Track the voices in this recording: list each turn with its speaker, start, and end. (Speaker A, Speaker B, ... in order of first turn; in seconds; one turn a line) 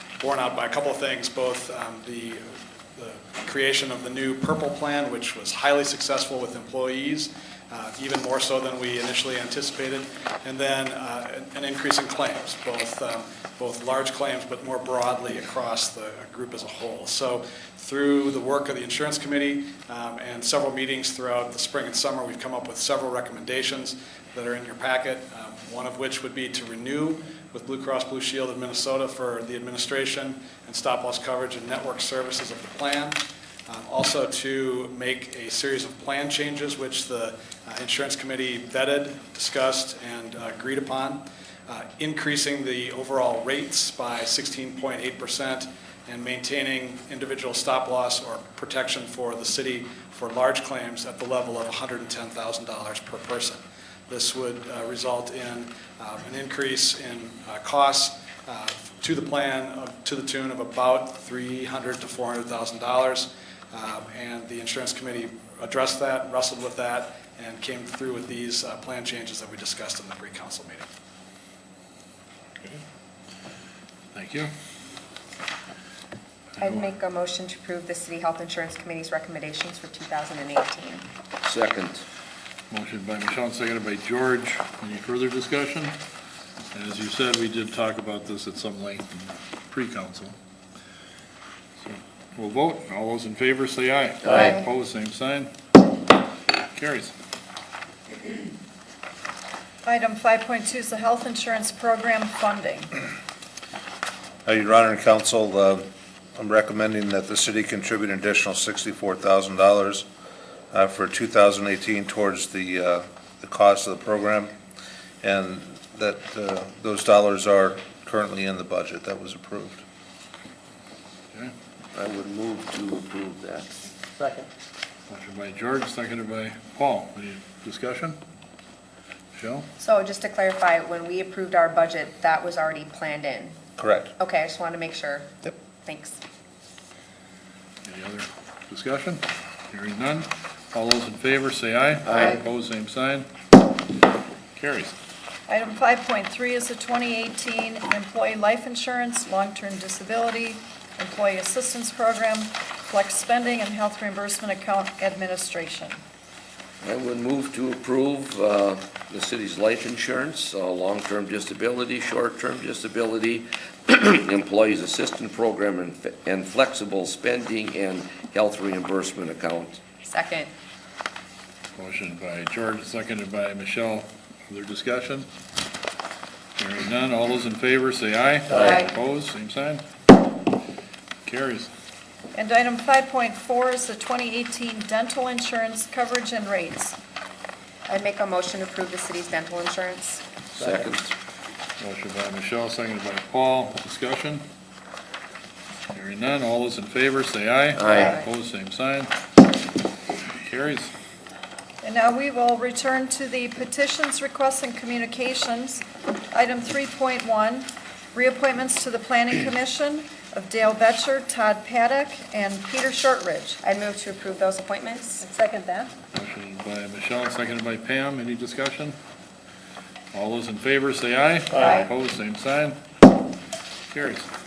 Speaker A: 0.2-70.9
Speaker B: 74.1-74.5
Speaker C: 76.6-81.0
Speaker D: 81.4-82.0
Speaker B: 82.7-86.0
Speaker B: 86.7-90.3
Speaker B: 91.8-95.5
Speaker D: 94.2-94.5
Speaker B: 96.7-97.1
Speaker E: 99.8-102.9
Speaker F: 104.5-110.1
Speaker F: 110.7-114.5
Speaker F: 115.2-119.8
Speaker D: 121.9-123.7
Speaker B: 125.1-128.2
Speaker B: 129.3-129.7
Speaker C: 129.8-133.6
Speaker F: 133.8-134.1
Speaker C: 134.2-136.2
Speaker B: 137.8-143.3
Speaker D: 142.1-142.4
Speaker B: 144.6-144.9
Speaker E: 145.5-156.0
Speaker D: 156.8-169.8
Speaker C: 170.0-170.5
Speaker B: 171.8-175.3
Speaker B: 176.6-179.8
Speaker C: 178.6-178.8
Speaker B: 181.2-181.7
Speaker E: 182.3-187.0
Speaker C: 187.9-190.2
Speaker D: 190.5-191.1
Speaker B: 191.8-194.4
Speaker B: 195.9-199.1
Speaker D: 197.8-198.2
Speaker B: 200.2-200.9
Speaker E: 201.8-213.6
Speaker C: 213.6-215.3
Speaker E: 215.4-215.8
Speaker B: 216.1-219.0
Speaker B: 220.1-222.8
Speaker B: 223.9-224.3